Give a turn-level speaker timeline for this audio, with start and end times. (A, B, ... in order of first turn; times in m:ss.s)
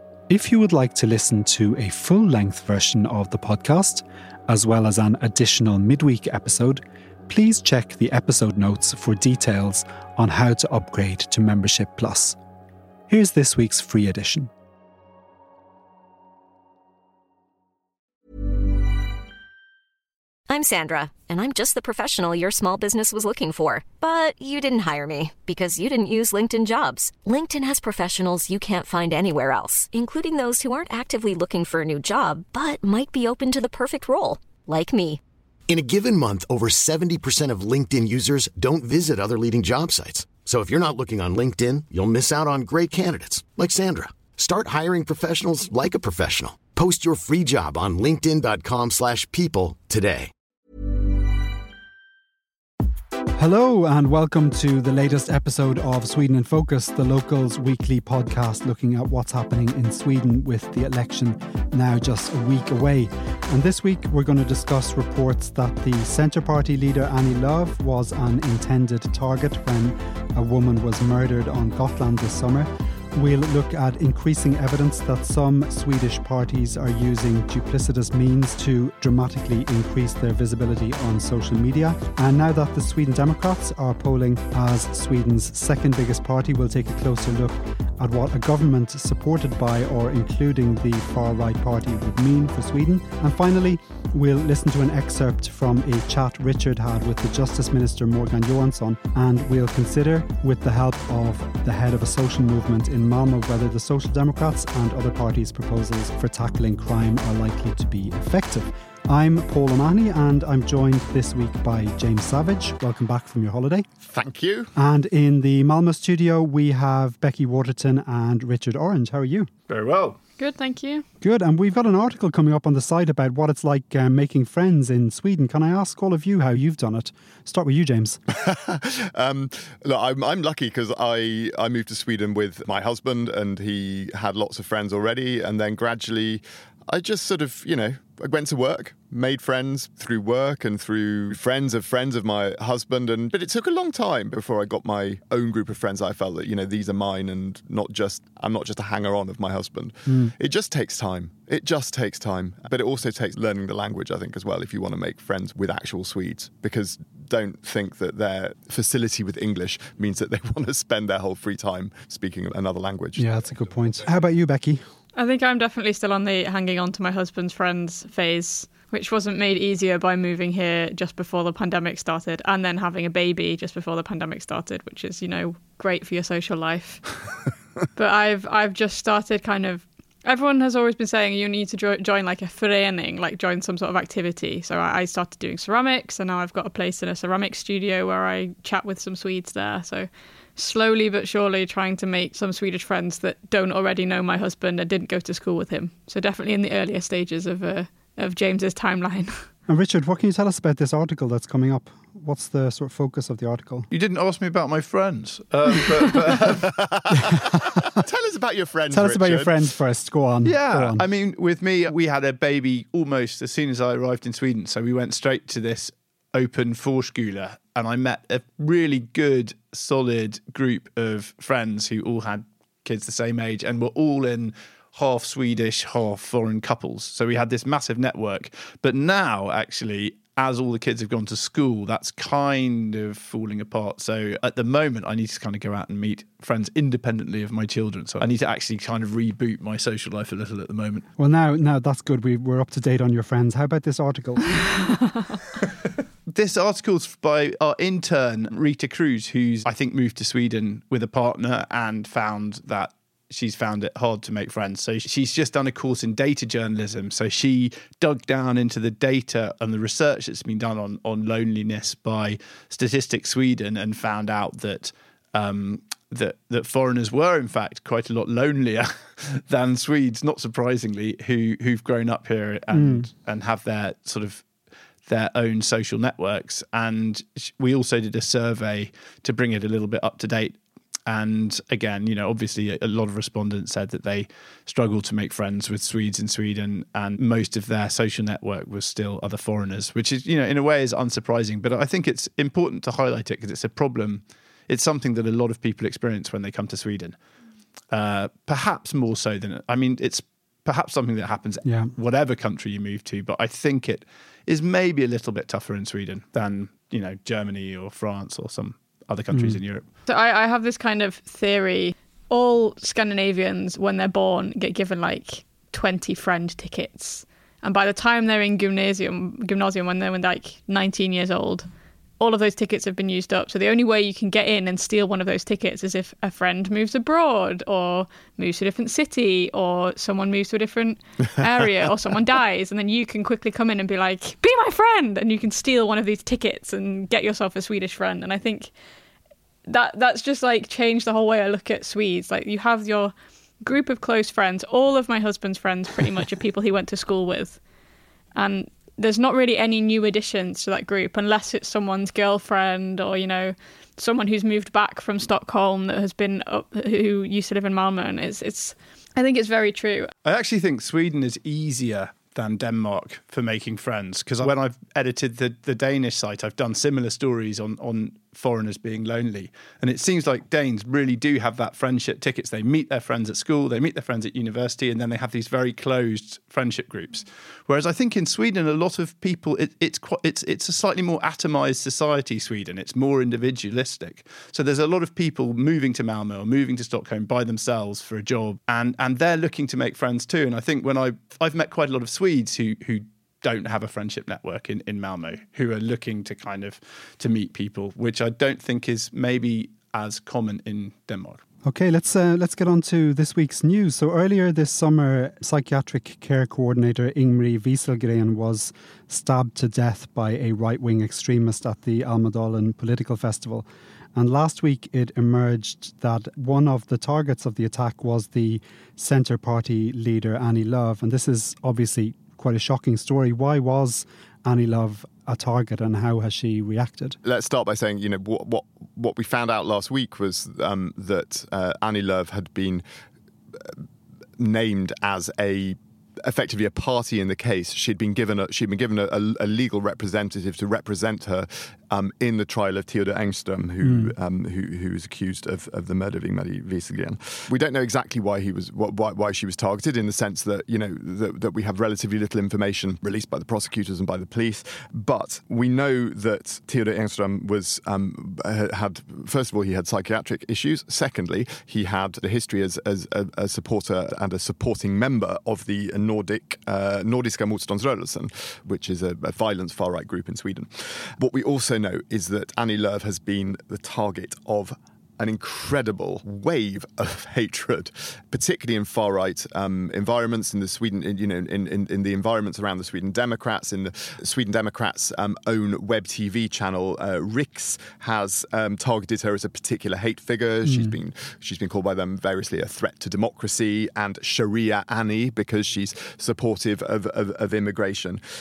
0:00.3-0:12.4 A
0:13.1-0:14.5 A
0:20.5-0:35.2 B
0:35.7-0:50.3 C
0:53.3-1:53.9 A
1:54.0-1:54.7 D
1:54.8-1:59.5 A
1:59.7-2:00.2 E
2:00.4-2:01.0 F
2:01.2-2:08.2 A
2:08.3-2:43.4 D
2:30.1-2:30.3 A
2:43.2-2:44.8 A
2:45.1-2:57.2 F
2:57.9-3:19.5 F
3:19.7-3:23.9 A
3:23.9-3:26.8 E
3:26.7-3:29.6 D
3:28.9-3:31.0 A
3:30.4-4:01.0 E
4:01.2-4:04.6 A
4:06.3-4:34.4 E
4:32.7-4:33.0 A
4:35.1-4:57.2 E
4:57.9-5:09.8 E
5:01.6-5:01.9 A
5:09.3-5:09.6 A
5:10.0-5:21.7 F
5:22.2-5:38.7 F
5:39.6-5:47.6 F
5:48.3-6:00.1 F
6:00.2-6:41.4 E
6:41.6-7:07.2 A
7:07.2-7:12.8 D
7:14.4-8:18.2 D
7:23.8-7:24.1 A
8:10.7-8:10.9 A